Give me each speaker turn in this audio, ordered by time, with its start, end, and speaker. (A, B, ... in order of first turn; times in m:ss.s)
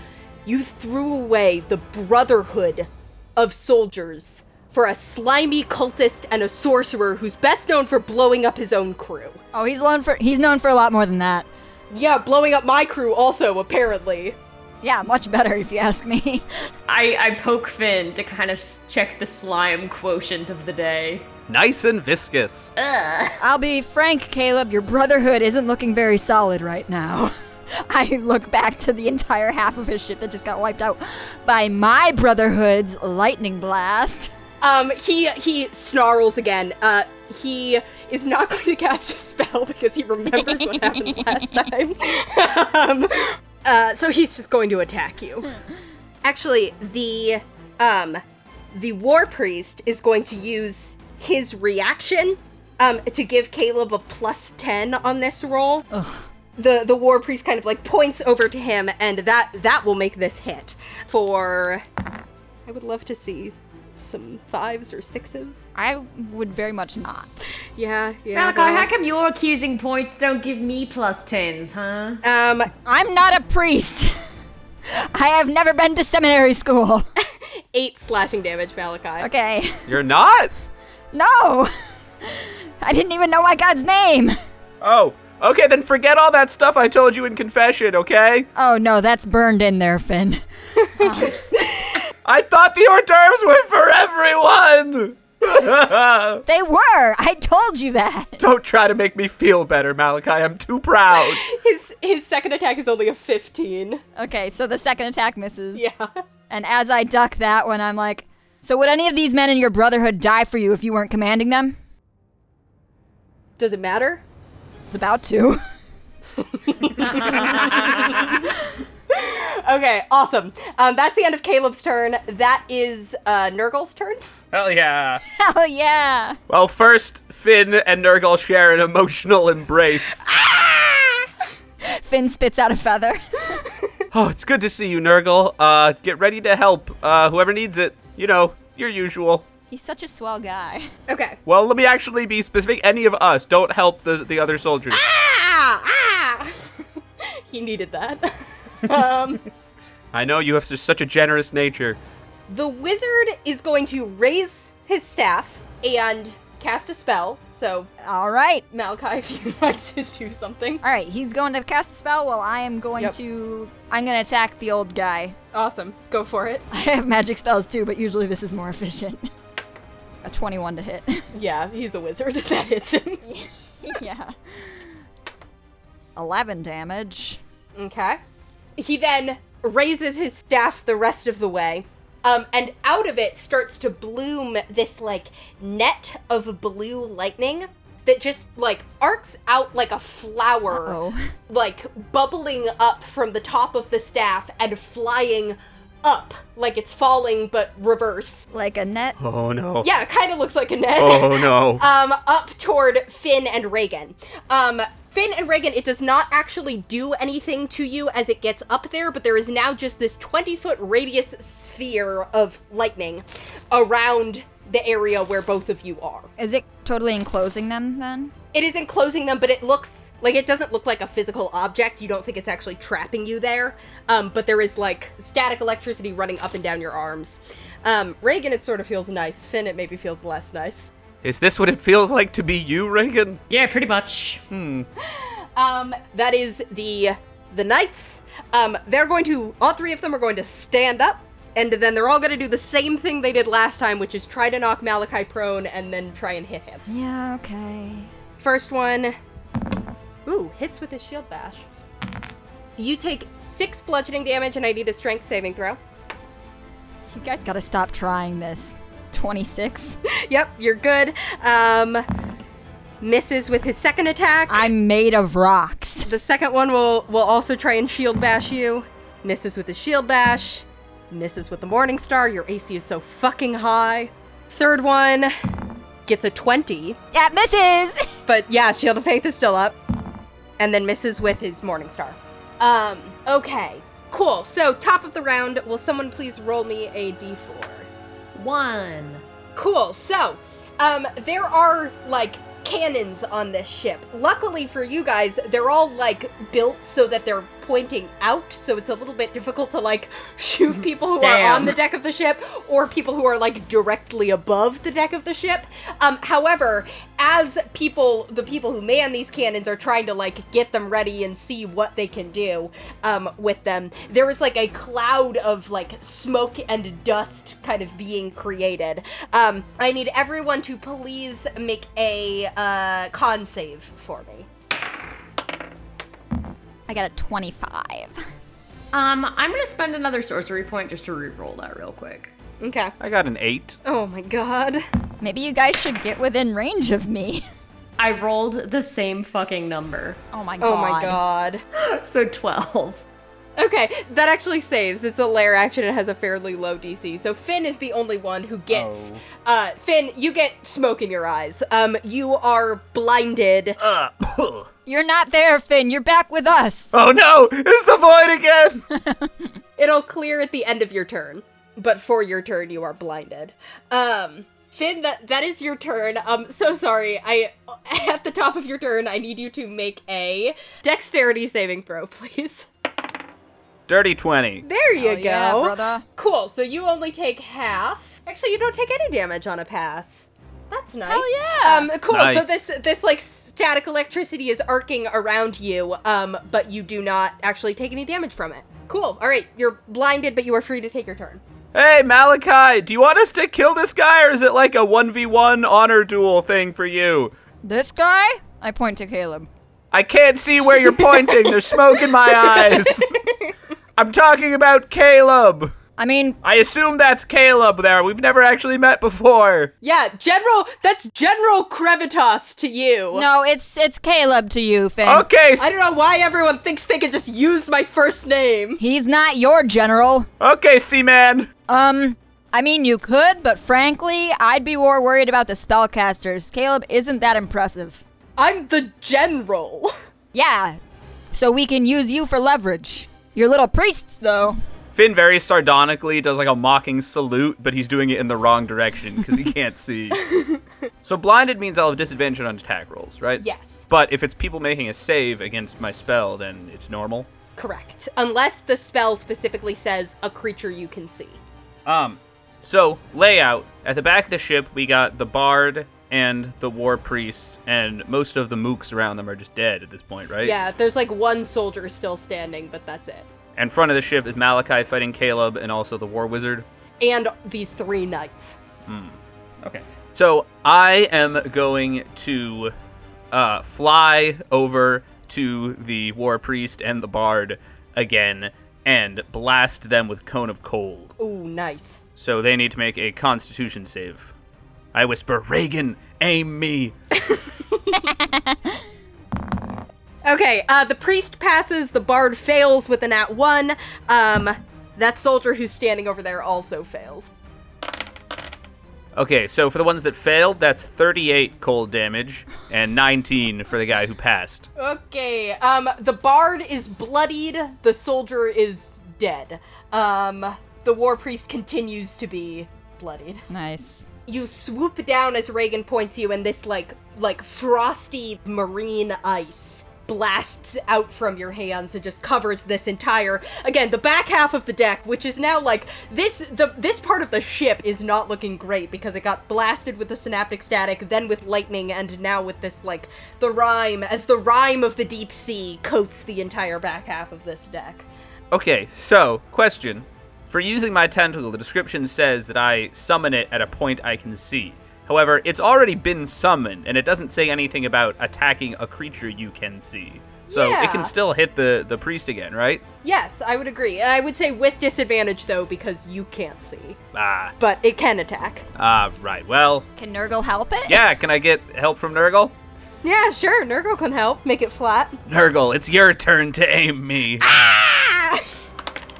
0:00.4-0:09.4 A
0:09.5-0:11.5 B
0:11.9-0:14.4 A
0:14.8-0:16.4 B
0:16.9-0:21.3 C
0:21.5-0:22.7 D
0:22.8-0:23.4 C
0:23.4-0:34.3 B
0:34.6-0:45.6 A
0:40.5-0:41.2 B
0:46.2-0:48.2 A
0:48.7-0:55.8 A
0:55.9-0:56.2 B
0:56.6-1:01.8 A
1:02.6-1:05.6 A
1:05.8-1:07.5 B
1:07.7-1:08.9 A
1:08.3-1:12.2 C
1:12.2-1:12.7 A
1:12.8-1:14.1 B
1:14.9-1:17.0 B
1:17.4-1:19.3 A
1:19.2-1:19.9 B
1:19.9-1:20.5 D
1:21.1-1:21.7 B
1:22.2-1:24.4 B
1:24.8-1:28.5 D
1:28.6-1:30.4 B
1:30.8-1:32.0 A
1:31.0-1:31.4 B
1:32.2-1:36.4 D
1:36.4-1:38.4 B
1:38.4-1:41.4 D
1:41.2-1:44.0 A
1:44.2-1:45.9 B
1:45.7-1:46.1 A
1:46.5-1:51.8 B
1:53.6-1:54.2 A
1:54.9-1:55.6 B
1:56.4-1:58.5 A
1:59.1-2:04.2 A
2:04.5-2:05.2 D
2:05.3-2:06.4 B
2:06.5-2:10.3 D
2:11.8-2:13.6 B
2:14.1-2:19.4 D
2:19.7-2:20.9 B
2:21.1-2:21.4 A
2:21.4-2:25.0 D
2:24.9-2:26.7 A
2:27.2-2:29.4 A
2:30.1-2:32.0 D
2:32.5-2:37.9 A
2:38.0-2:38.6 B
2:38.7-2:40.8 A
2:40.8-2:45.4 B
2:45.5-2:46.6 A
2:46.7-2:49.3 B
2:50.2-2:51.2 B
2:51.3-2:53.2 A
2:53.2-2:54.8 B
2:56.2-2:57.4 B
2:57.8-2:58.2 A
2:58.8-3:11.0 A
3:10.7-3:11.3 B
3:11.5-3:18.4 A
3:18.5-3:19.2 B
3:19.2-3:19.9 D
3:19.8-3:36.3 A
3:21.0-3:21.8 D
3:36.4-3:38.3 B
3:38.5-3:50.9 A
3:51.2-3:53.4 D
3:53.5-3:54.4 C
3:54.5-3:54.9 D
3:55.0-4:06.8 A
4:06.9-4:08.1 B
4:08.4-4:09.1 A
4:10.2-4:11.6 A
4:12.8-4:15.8 A
4:17.1-4:20.0 B
4:20.2-4:22.0 A
4:23.0-4:24.7 A
4:24.5-4:26.1 B
4:26.0-4:35.3 A
4:36.0-4:37.0 A
4:37.1-4:38.1 B
4:38.2-4:39.8 A
4:40.6-4:47.9 A
4:48.3-4:49.2 C
4:49.5-5:24.5 A
5:01.2-5:01.8 C
5:26.9-5:28.1 B
5:28.9-5:32.3 C
5:32.6-5:32.9 A
5:33.0-5:33.8 D
5:33.8-5:34.8 A
5:35.2-5:37.4 B
5:38.0-5:40.2 C
5:40.3-5:41.2 B
5:40.6-5:41.6 A
5:41.7-5:43.0 C
5:43.6-5:53.8 A
5:48.7-5:49.2 D
5:53.8-5:54.7 D
5:54.8-5:56.9 B
5:56.9-5:58.8 D
5:58.9-5:59.3 B
5:59.8-6:12.7 A
6:13.9-6:14.6 D
6:14.6-6:31.4 A
6:15.0-6:16.0 B
6:21.0-6:21.9 B
6:22.1-6:22.7 D
6:31.7-6:37.3 D
6:37.6-6:39.5 B
6:39.9-6:43.2 D
6:41.1-6:43.5 A
6:44.0-6:45.7 D
6:46.0-6:46.4 B
6:46.4-6:49.7 D
6:49.8-6:53.2 A
6:53.1-6:55.2 B
6:55.0-6:55.7 D
6:55.6-6:58.8 A
6:58.8-7:00.3 B
7:00.4-7:01.5 D
7:01.7-7:08.0 B
7:08.4-7:09.9 A
7:10.3-7:10.8 B
7:11.3-7:14.6 B
7:14.9-7:20.2 D
7:20.2-7:20.6 A
7:21.0-7:27.3 D
7:23.4-7:23.8 A
7:27.6-7:31.4 A
7:31.8-7:40.6 D
7:40.4-7:43.3 A
7:43.6-7:46.6 D
7:47.0-7:48.6 A
7:48.8-7:52.7 D
7:53.3-8:01.2 D
8:01.2-8:02.0 A
8:02.2-8:04.3 D
8:04.9-8:06.9 D
8:07.2-8:08.0 A
8:08.0-8:08.8 B
8:10.2-8:17.3 A
8:19.2-8:24.7 D
8:24.8-8:33.4 A
8:33.5-8:34.1 B
8:34.2-8:58.0 A
8:58.5-9:12.8 D
9:10.5-9:11.1 A
9:13.0-9:17.0 A
9:17.1-9:17.5 D
9:17.6-9:18.6 A
9:18.8-9:19.8 D
9:20.0-9:21.0 B
9:20.9-9:22.5 D
9:23.0-9:25.2 A
9:25.3-9:27.6 D
9:27.4-9:28.5 A